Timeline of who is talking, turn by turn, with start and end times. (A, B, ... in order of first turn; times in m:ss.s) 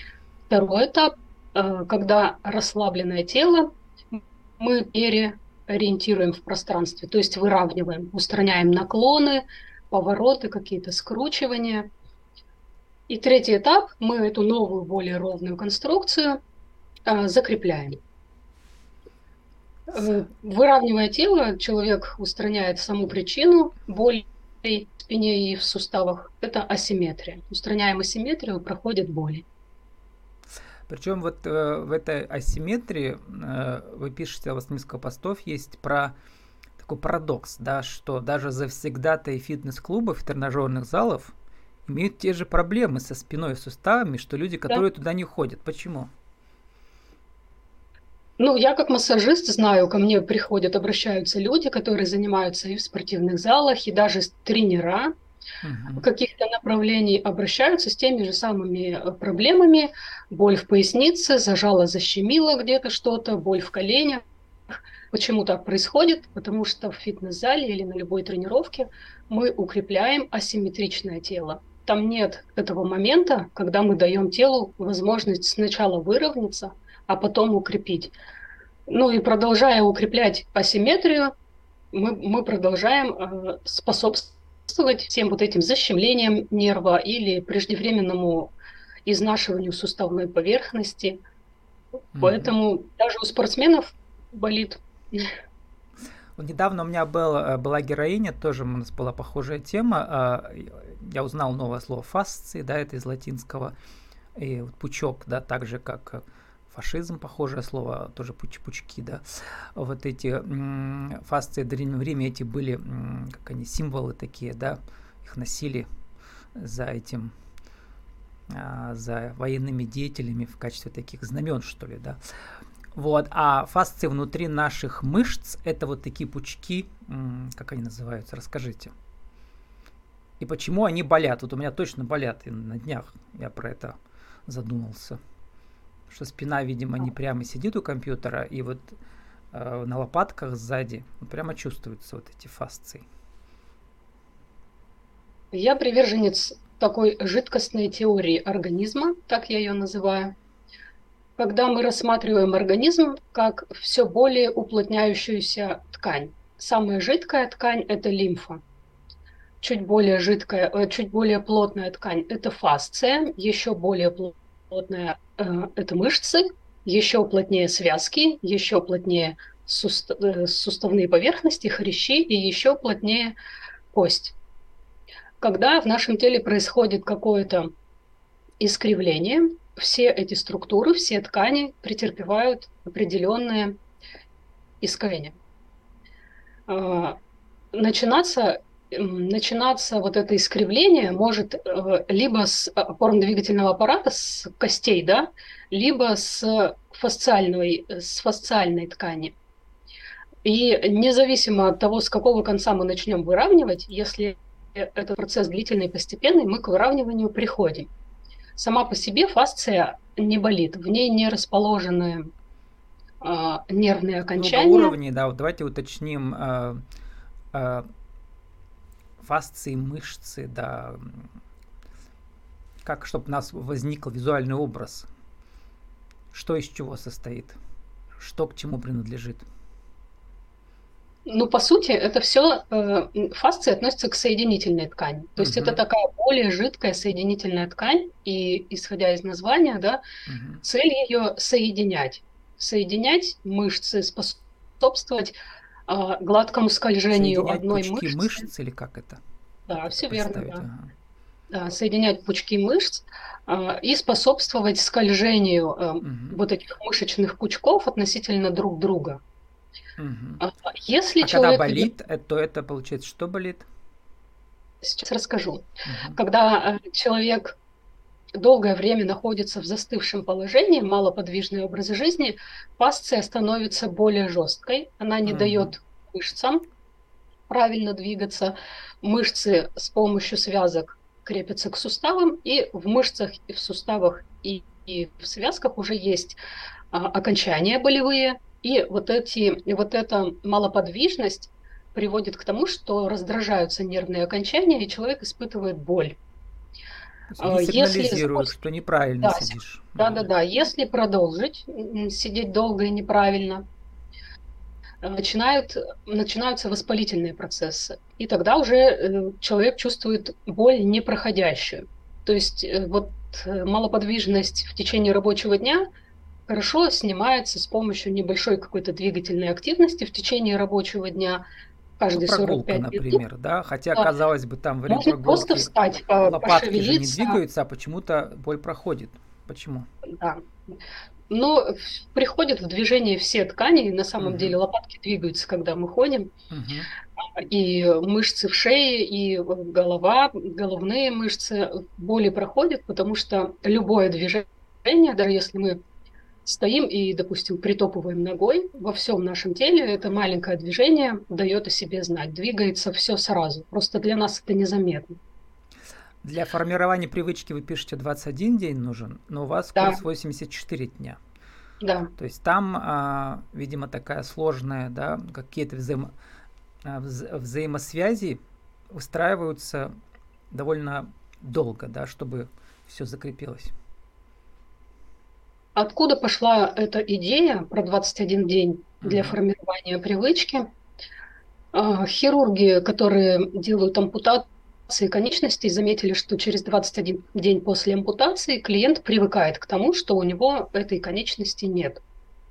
0:00.5-0:11.9 A
0:13.1-0:16.4 A
0:17.1-0:18.0 A
0:19.9-0:29.4 A
0:30.9-0:36.1 B
0:36.8-0:41.3 B
0:41.9-0:46.1 B
0:48.4-0:55.1 A
0:55.6-0:56.1 B
0:56.0-1:18.2 A
1:18.9-1:21.3 A
1:21.9-1:28.5 A
1:29.1-1:31.2 A
1:32.2-1:32.5 B
1:32.2-1:35.3 A
1:36.4-1:43.7 B
1:44.4-1:49.2 B
1:49.8-1:55.9 B
1:56.6-1:57.3 B
1:58.5-2:02.2 B
2:03.0-2:08.9 B
2:10.4-2:14.0 B
2:14.5-2:15.2 B
2:16.1-2:19.0 B
2:19.5-2:23.0 B
2:25.5-2:30.3 A
2:31.4-2:38.6 A
2:39.6-2:53.4 A
2:53.9-2:54.4 A
2:55.4-2:57.7 A
2:58.6-3:03.8 A
3:04.8-3:05.4 A
3:06.7-3:07.2 A
3:07.7-3:19.4 A
3:20.4-3:27.9 A
3:28.6-3:32.3 A
3:33.2-3:35.0 A
3:34.4-3:36.8 B
3:37.5-3:37.9 B
3:39.2-3:41.3 B
3:42.8-3:45.1 B
3:46.3-3:47.6 B
3:48.2-3:49.5 B
3:51.3-4:00.0 A
3:55.4-3:55.8 B
4:00.3-4:00.6 B
4:00.6-4:08.5 A
4:07.1-4:09.2 B
4:09.7-4:10.7 A
4:09.8-4:10.9 B
4:11.5-4:19.2 A
4:16.0-4:16.4 B
4:20.0-4:20.4 B
4:20.4-4:21.9 A
4:21.2-4:23.7 B
4:24.8-4:27.6 A
4:25.8-4:26.2 B
4:28.4-4:36.6 A
4:35.3-4:35.7 B
4:37.5-4:46.4 A
4:46.9-4:56.2 A
4:57.3-5:00.3 B
4:57.4-4:58.5 A
4:59.2-5:03.7 A
5:05.0-5:15.8 A
5:16.5-5:21.4 A
5:22.0-5:23.2 A
5:22.2-5:25.7 B
5:24.9-5:27.4 A
5:26.2-5:29.9 B
5:30.2-5:30.7 A
5:31.3-5:36.3 A
5:34.2-5:34.6 B
5:36.5-5:36.9 B
5:37.4-5:45.8 A
5:46.4-5:55.2 A
5:56.2-6:01.2 B
5:59.8-6:00.0 A
6:01.8-6:02.1 A
6:02.2-6:06.1 B
6:06.8-6:08.4 B
6:08.9-6:09.9 B
6:10.5-6:13.7 B
6:15.8-6:20.7 A
6:19.0-6:19.4 B
6:21.7-6:32.0 A